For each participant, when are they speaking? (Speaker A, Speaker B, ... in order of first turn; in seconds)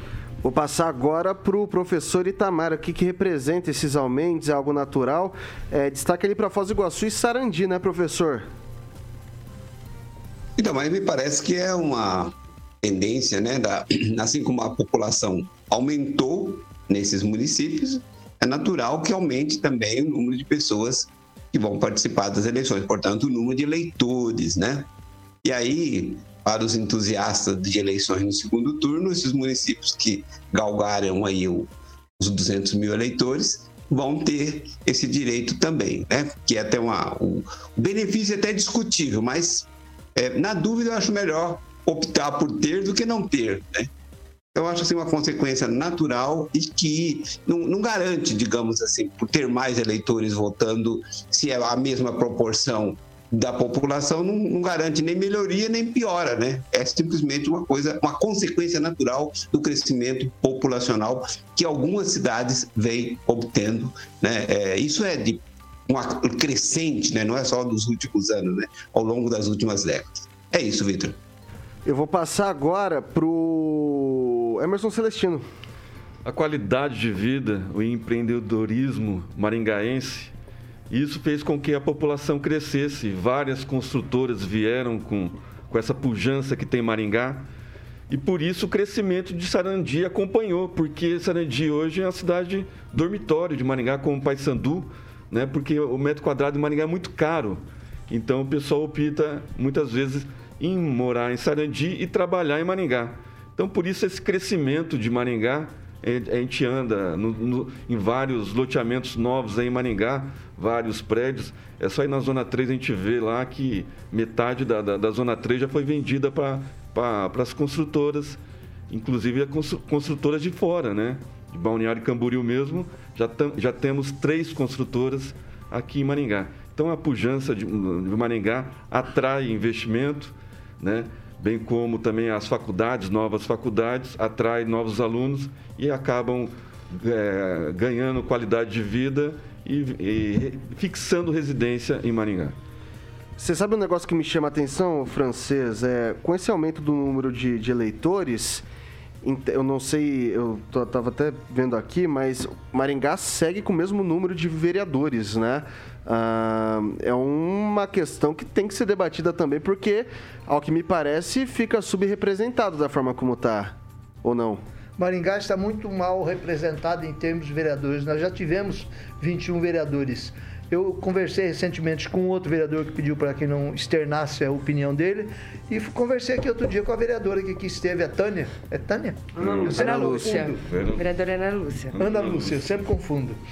Speaker A: 0.4-8.5, 71.8-75.4, 143.4-148.6, 149.2-164.6, 179.6-180.5
Speaker B: 10.6-24.9, 25.4-43.9, 44.5-71.2
Speaker C: 76.2-80.3, 80.9-87.5, 88.1-118.4, 118.9-142.5, 179.3-181.0, 181.9-182.6
Speaker D: 165.0-180.5, 182.0-183.4
Speaker E: 179.6-182.0